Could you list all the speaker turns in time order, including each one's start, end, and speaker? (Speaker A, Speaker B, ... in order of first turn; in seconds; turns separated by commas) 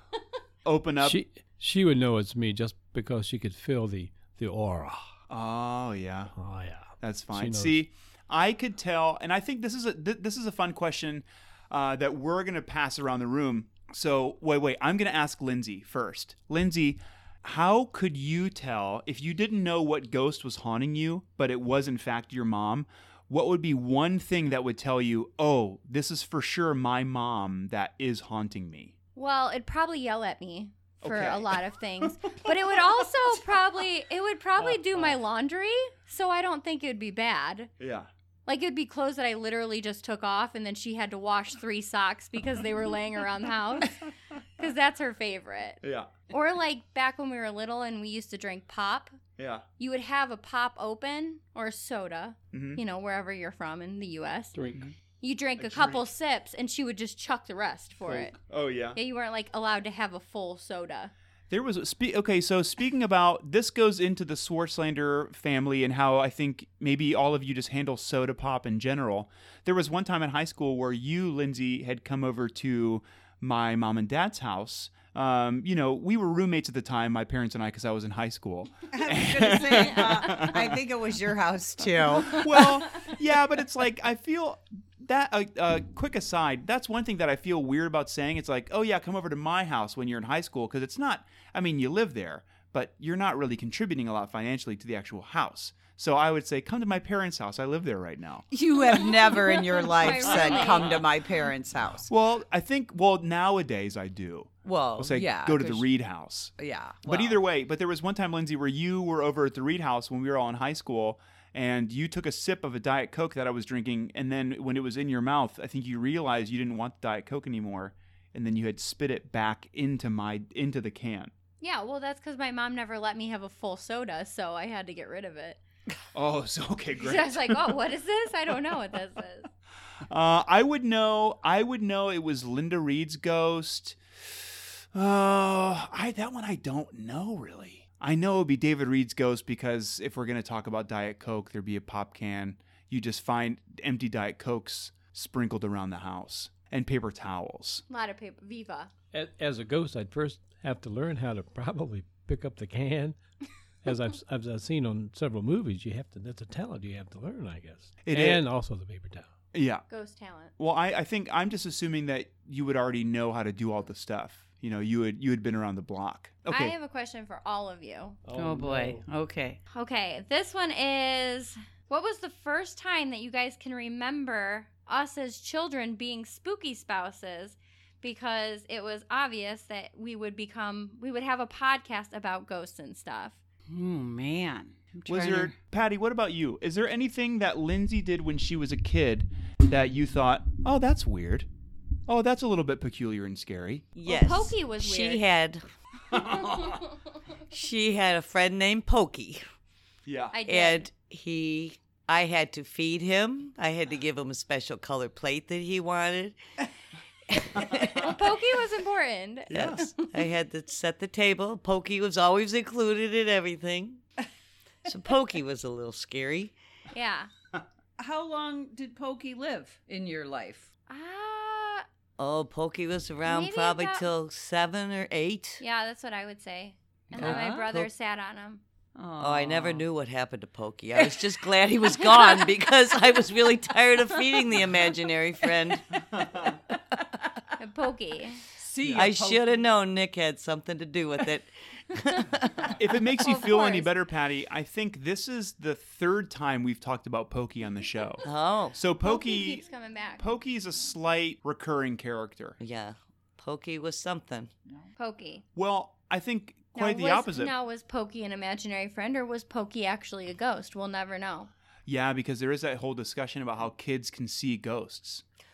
Speaker A: 0.7-1.2, Speaker B: 1.0-5.1, Speaker A: 5.3-6.3, Speaker B: 6.4-7.8, Speaker A: 7.0-28.9, Speaker C: 29.2-37.7, Speaker A: 31.0-31.6, Speaker A: 37.8-38.1, Speaker C: 38.5-49.2, Speaker A: 45.8-46.1, Speaker A: 49.4-49.6, Speaker C: 49.8-54.6, Speaker A: 52.5-52.8, Speaker B: 54.5-54.9, Speaker C: 55.2-58.4, Speaker A: 55.6-56.1, Speaker A: 58.4-59.0, Speaker C: 59.0-61.1, Speaker A: 61.5-80.8, Speaker D: 78.9-82.8, Speaker A: 82.2-98.5, Speaker D: 98.5-102.1, Speaker C: 99.0-101.0, Speaker A: 100.1-101.0, Speaker A: 102.1-106.5, Speaker D: 104.7-105.9, Speaker D: 106.6-107.4, Speaker A: 107.0-121.3, Speaker C: 121.6-125.6, Speaker A: 126.1-127.8, Speaker C: 127.0-129.5, Speaker A: 130.1-147.8, Speaker C: 147.9-148.9, Speaker B: 149.1-153.2, Speaker B: 153.8-159.3, Speaker A: 158.1-158.4, Speaker A: 159.5-159.8, Speaker C: 159.9-160.5, Speaker A: 160.6-166.8, Speaker C: 166.5-168.2, Speaker B: 168.2-169.0, Speaker D: 168.4-169.6, Speaker C: 169.7-183.4, Speaker D: 183.7-185.6, Speaker A: 185.1-191.5, Speaker A: 192.1-193.9, Speaker E: 194.0-195.7, Speaker C: 194.1-195.2, Speaker A: 196.1-196.8, Speaker E: 197.5-199.4, Speaker A: 200.1-200.4, Speaker C: 200.3-200.9, Speaker E: 200.5-206.4, Speaker E: 207.3-208.3, Speaker C: 207.9-210.1, Speaker A: 209.5-209.9, Speaker E: 209.5-214.0, Speaker E: 214.9-216.5, Speaker C: 216.9-217.3, Speaker D: 218.0-220.7, Speaker C: 220.9-221.8, Speaker E: 222.2-225.6, Speaker C: 223.2-224.1, Speaker C: 225.6-228.6, Speaker D: 227.1-227.7, Speaker E: 227.2-227.9, Speaker D: 228.9-229.8, Speaker E: 229.2-236.0, Speaker D: 230.9-232.6, Speaker A: 236.1-236.6, Speaker C: 237.6-238.4, Speaker D: 238.6-239.7, Speaker E: 238.9-242.8, Speaker A: 242.7-249.6, Speaker C: 243.2-243.9, Speaker E: 248.2-248.8, Speaker C: 249.0-250.2, Speaker A: 250.2-252.6, Speaker E: 252.6-254.5, Speaker C: 255.0-255.4, Speaker A: 255.6-257.5, Speaker C: 256.8-261.5, Speaker A: 261.9-265.2